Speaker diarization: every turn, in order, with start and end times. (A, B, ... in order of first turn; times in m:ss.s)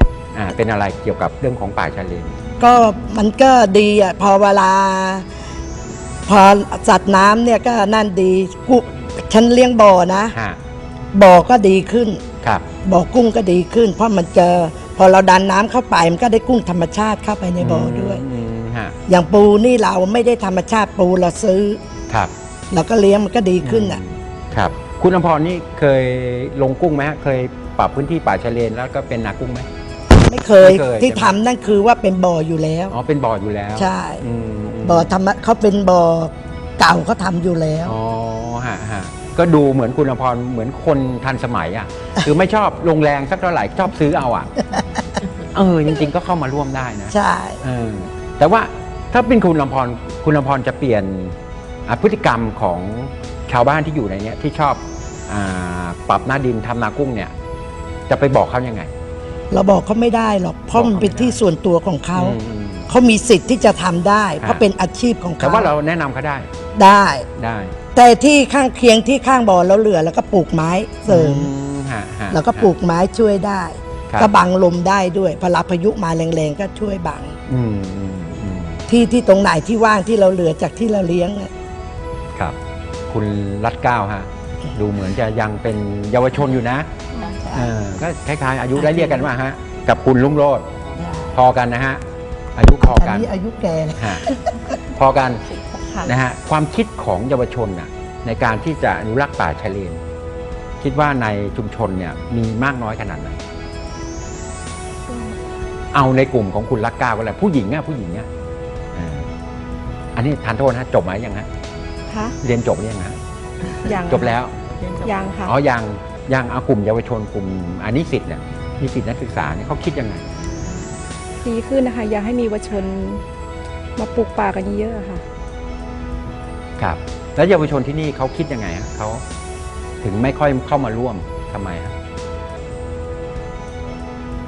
0:00.3-0:02.3 A
0:02.6-0:05.3 B
0:06.3-0:10.3 B
0:10.3-0:10.6 A
0:11.1-0:12.2 B
0:12.8-0:18.2 B
0:17.6-0:19.0 A
0:19.1-0:21.8 B
0:22.7-0:24.0 B
0:23.6-0:29.6 A
0:30.1-0:32.9 B
0:30.6-0:31.4 A
0:32.9-0:35.1 A
0:33.8-0:34.2 B
0:34.8-0:38.0 B
0:37.8-0:44.5 A
0:44.7-0:45.0 B
0:45.5-0:51.3 A
0:47.1-0:47.6 B
0:51.9-0:57.3 A
0:58.1-0:58.9 A
0:59.5-1:02.4 B
1:00.7-1:01.4 A
1:02.1-1:02.9 A
1:02.9-1:05.7 B
1:05.4-1:06.5 A
1:06.7-1:07.3 B
1:07.4-1:07.7 A
1:07.9-1:11.5 B
1:11.1-1:12.7 A
1:12.3-1:17.3 B
1:17.5-1:18.8 A
1:18.9-1:21.5 B
1:23.1-1:26.9 A
1:27.4-1:27.7 B
1:27.5-1:30.6 A
1:28.7-1:29.3 B
1:31.0-1:31.3 B
1:31.3-1:32.0 A
1:32.6-1:33.3 A
1:32.8-1:34.8 B
1:34.0-1:34.2 A
1:34.9-1:35.4 A
1:36.0-1:40.0 A
1:40.8-1:43.4 A
1:45.1-1:45.4 C
1:45.9-1:48.3 A
1:48.9-1:49.3 A
1:50.1-1:51.5 A
1:52.4-1:53.2 A
1:53.7-1:54.5 A
1:53.8-1:54.4 C
1:55.0-1:55.5 C
1:55.4-2:00.3 A
2:01.4-2:03.2 C
2:04.0-2:05.2 C
2:06.8-2:09.2 A
2:10.0-2:11.9 A